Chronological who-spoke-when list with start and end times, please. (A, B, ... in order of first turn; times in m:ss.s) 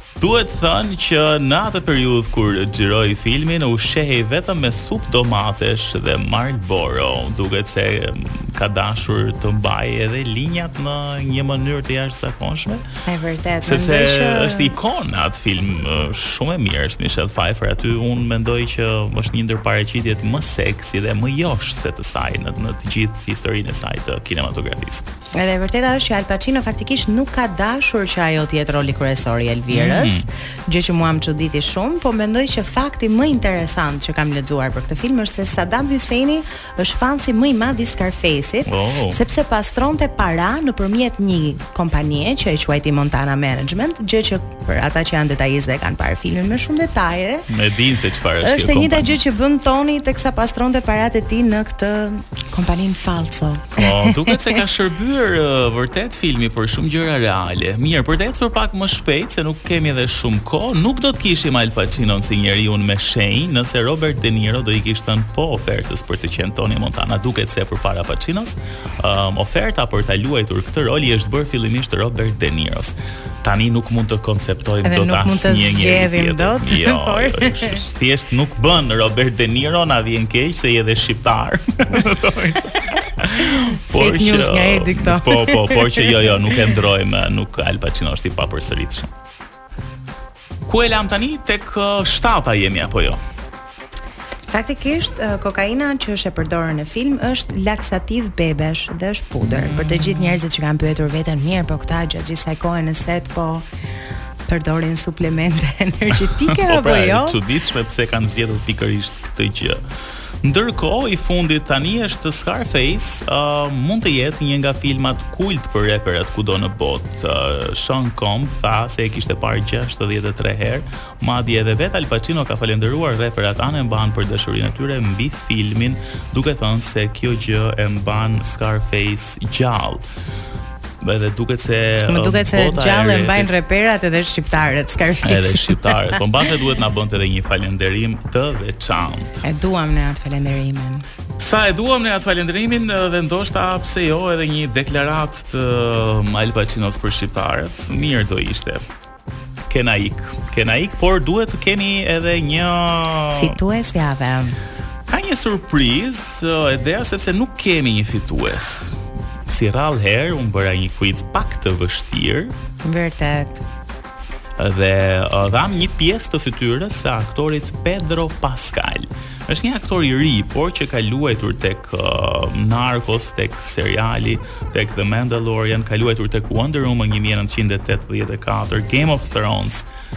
0:00.2-0:12.8 A
0:13.0-0:14.7 B
0:13.6-0:25.0 A
0:25.4-0:47.5 B
0:29.7-0:30.3 A
0:38.6-0:39.2 A
0:47.5-0:49.2 A
0:48.4-0:54.6 B
0:53.7-1:29.1 A
1:14.8-1:17.8 B
1:23.5-1:26.7 B
1:30.7-1:33.2 A
1:34.5-1:43.6 B
1:39.4-1:40.4 A
1:44.5-1:47.4 B
1:46.6-1:49.8 A
1:50.4-2:10.0 A
2:11.0-2:13.5 A
2:12.1-2:16.2 B
2:15.2-2:19.4 A
2:19.4-2:21.0 B
2:21.4-2:28.8 A
2:29.7-2:33.6 A
2:33.3-2:34.6 B
2:35.1-2:38.9 A
2:39.5-2:42.5 A
2:42.8-2:43.6 B
2:44.6-2:59.9 A